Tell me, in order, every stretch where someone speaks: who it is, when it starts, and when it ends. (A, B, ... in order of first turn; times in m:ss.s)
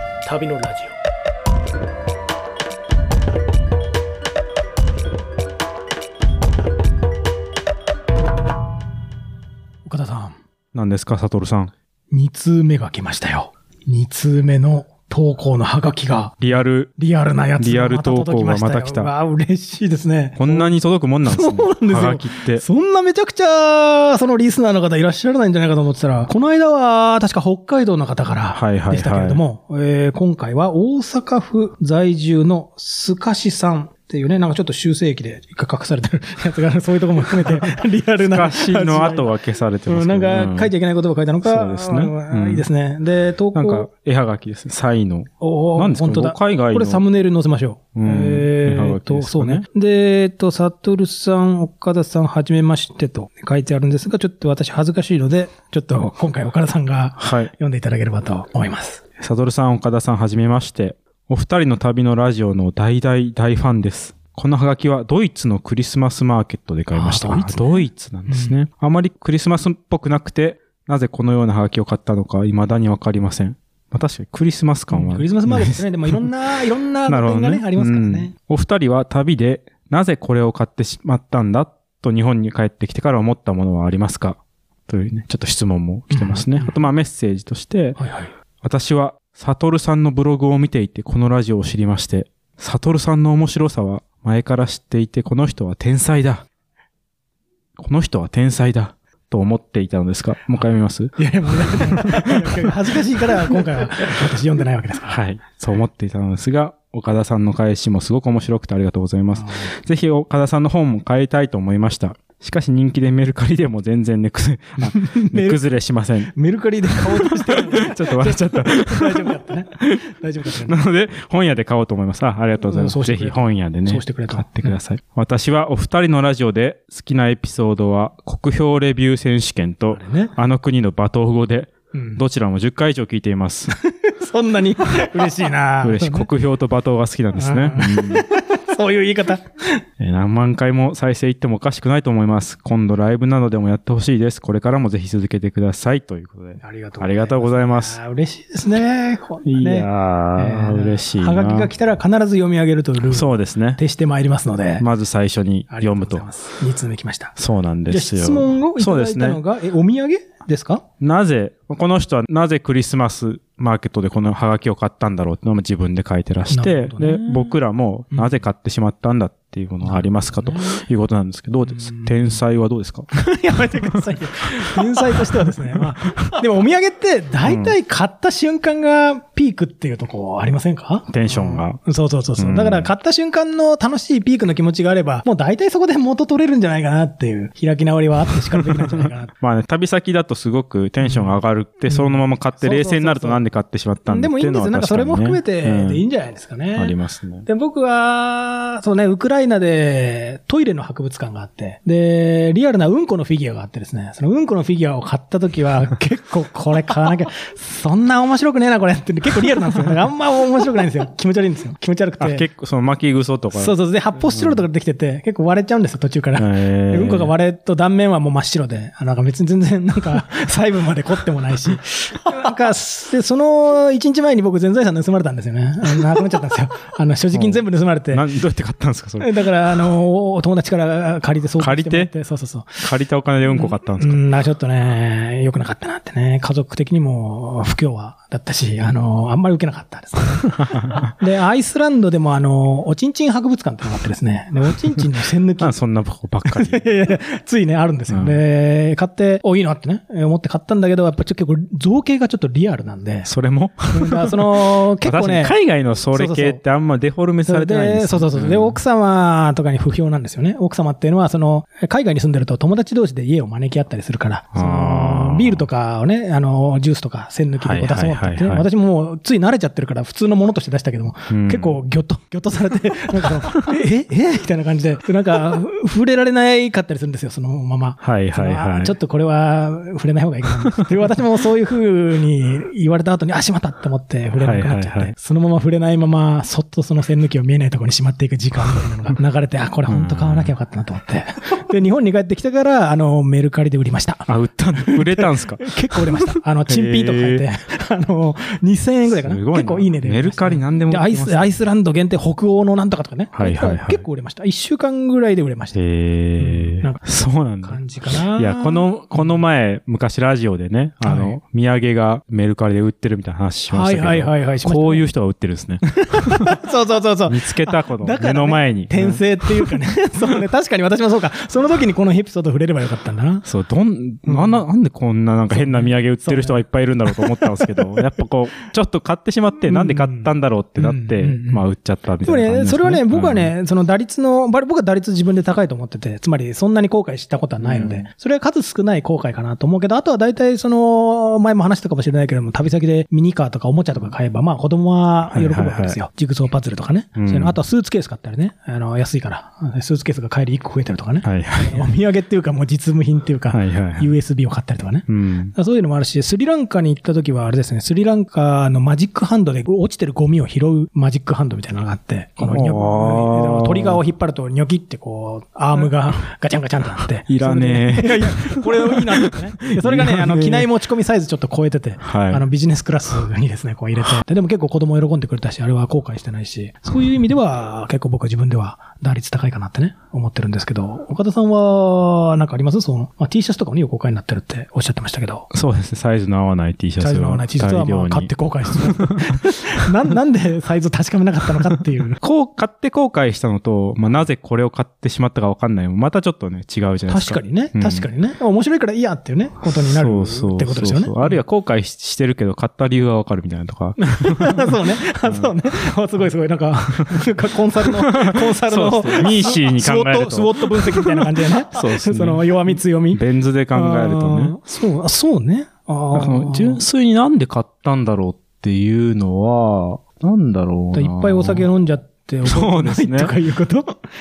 0:00.2-0:01.0 A
0:09.8-0:10.4 A
0:10.7-0:11.7 B
0:12.1-0:16.4 A
0:16.4-0:16.9 B
0:17.0-0:39.3 A
0:17.6-0:19.1 B
0:20.4-0:22.6 B
0:28.5-0:29.4 B
0:37.6-0:40.7 B
0:39.8-0:43.9 A
0:41.4-0:42.6 B
0:43.5-0:47.0 B
0:45.4-0:59.0 A
0:48.0-0:49.6 B
0:57.2-0:57.5 B
0:59.2-1:16.3 B
1:06.9-1:08.6 A
1:14.9-1:18.3 A
1:17.0-1:28.0 B
1:26.1-1:26.8 A
1:28.0-1:28.3 A
1:28.6-1:36.4 B
1:37.8-1:42.5 B
1:41.2-1:45.2 A
1:45.1-1:56.3 B
1:49.3-1:49.7 A
1:54.8-1:55.6 A
1:56.3-2:00.8 A
1:57.0-2:00.0 B
2:00.6-2:13.8 B
2:02.6-2:04.8 A
2:09.9-2:10.3 A
2:11.9-2:12.2 A
2:13.9-2:16.3 A
2:15.8-2:18.3 B
2:17.4-2:19.8 A
2:20.0-2:28.0 B
2:26.6-2:34.8 A
2:29.4-2:31.7 B
2:33.0-2:33.8 B
2:34.8-2:36.2 B
2:35.7-2:37.4 A
2:37.4-2:39.4 B
2:37.9-2:40.8 A
2:41.0-2:53.1 B
2:46.5-2:47.5 A
2:48.1-2:48.4 A
2:49.8-2:50.8 A
2:51.7-2:52.4 A
2:53.1-3:09.3 A
2:55.0-2:55.5 B
2:57.4-2:57.8 B
3:01.1-3:01.8 B
3:02.4-3:02.9 B
3:08.6-3:16.0 B
3:11.0-3:13.4 A
3:14.0-3:32.4 A
3:16.8-3:17.5 B
3:32.2-3:33.7 B
3:33.5-3:48.3 A
3:36.4-3:37.3 B
3:47.3-3:49.3 B
3:49.2-3:52.9 A
3:51.6-3:52.1 B
3:52.8-3:54.2 B
3:53.5-4:05.7 A
4:05.6-4:06.8 B
4:06.4-4:13.3 A
4:08.1-4:08.4 B
4:13.2-4:18.8 B
4:13.9-4:15.6 A
4:16.1-4:16.6 A
4:17.4-5:05.8 A
4:24.5-4:25.6 B
4:27.6-4:28.6 B
4:31.3-4:31.8 B
4:38.0-4:38.9 B
4:44.4-4:45.1 B
4:49.9-4:50.5 B
4:54.3-4:57.4 B
4:59.1-5:01.6 B
5:03.3-5:04.0 B
5:05.7-5:16.6 B
5:06.4-5:09.4 A
5:11.0-5:11.4 A
5:13.7-5:15.0 A
5:15.9-5:23.4 A
5:17.3-5:19.7 B
5:23.4-5:33.5 B
5:24.2-5:24.6 A
5:25.5-5:28.0 A
5:29.7-5:31.6 A
5:32.2-6:25.5 A
5:37.6-5:38.1 B
5:45.3-5:46.0 B
5:47.2-5:47.6 B
5:51.2-5:51.9 B
5:53.5-5:54.1 B
5:55.1-5:55.5 B
6:02.4-6:04.0 B
6:07.3-6:10.7 B
6:12.0-6:12.4 B
6:25.5-6:29.2 B
6:27.0-6:32.2 A
6:32.2-6:38.1 B
6:37.1-6:41.4 A
6:39.6-6:45.5 B
6:44.0-6:56.8 A
6:47.1-6:54.6 B
6:56.1-7:01.7 B
7:00.9-7:04.0 A
7:02.4-7:03.3 B